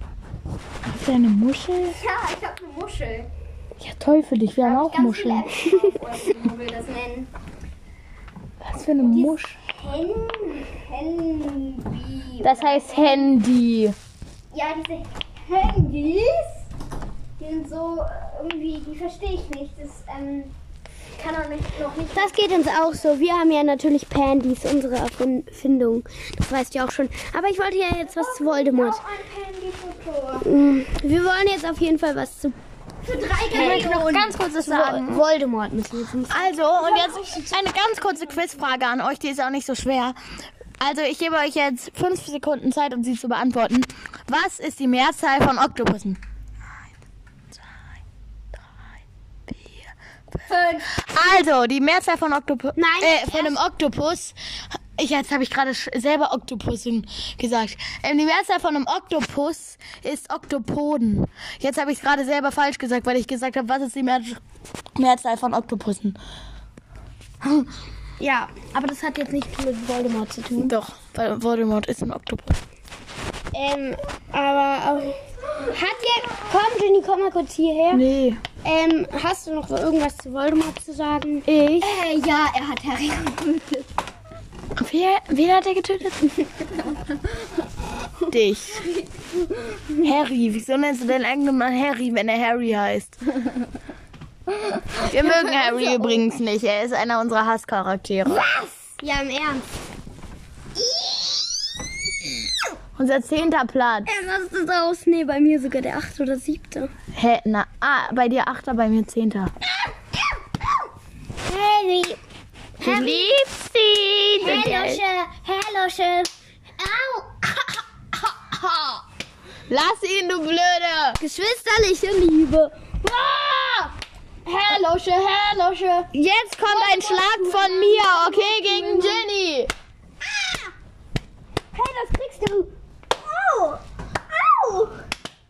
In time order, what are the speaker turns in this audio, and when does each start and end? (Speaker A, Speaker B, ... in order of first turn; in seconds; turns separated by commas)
Speaker A: 0.8-2.0, Speaker B: 1.8-3.3, Speaker A: 3.8-5.5, Speaker B: 4.6-7.3, Speaker A: 8.6-9.6, Speaker B: 9.0-13.3, Speaker A: 12.4-13.9, Speaker B: 14.5-16.7, Speaker B: 17.4-20.5, Speaker B: 21.2-23.1, Speaker C: 22.1-29.0, Speaker B: 28.1-30.5, Speaker C: 30.4-32.5, Speaker B: 33.0-34.4, Speaker A: 33.5-35.2, Speaker C: 33.5-34.0, Speaker C: 34.6-36.6, Speaker A: 36.3-40.1, Speaker B: 36.7-37.6, Speaker A: 40.8-46.2, Speaker A: 49.5-49.9, Speaker B: 50.5-50.9, Speaker A: 50.9-54.4, Speaker C: 52.8-53.5, Speaker A: 55.0-64.4, Speaker A: 65.0-66.2, Speaker A: 67.4-67.7, Speaker C: 68.2-70.7, Speaker A: 70.6-72.6, Speaker C: 73.5-78.0, Speaker A: 77.9-78.4, Speaker C: 78.6-81.9, Speaker B: 81.8-83.9, Speaker A: 84.8-86.4, Speaker A: 88.3-88.9, Speaker A: 90.0-93.2, Speaker A: 94.9-98.5, Speaker B: 95.6-96.0, Speaker C: 98.3-99.7, Speaker C: 100.9-101.3, Speaker A: 103.0-104.1, Speaker C: 104.0-106.9, Speaker A: 107.1-109.5, Speaker C: 111.4-112.2, Speaker A: 112.8-115.0, Speaker C: 112.8-113.1, Speaker B: 114.4-116.3, Speaker C: 114.4-114.9, Speaker B: 116.8-119.0, Speaker A: 119.7-121.2, Speaker C: 121.2-123.9, Speaker C: 124.5-126.1, Speaker A: 126.1-129.7, Speaker B: 126.6-129.1, Speaker C: 128.3-129.2, Speaker C: 131.7-132.7, Speaker B: 133.3-133.7, Speaker C: 134.5-134.9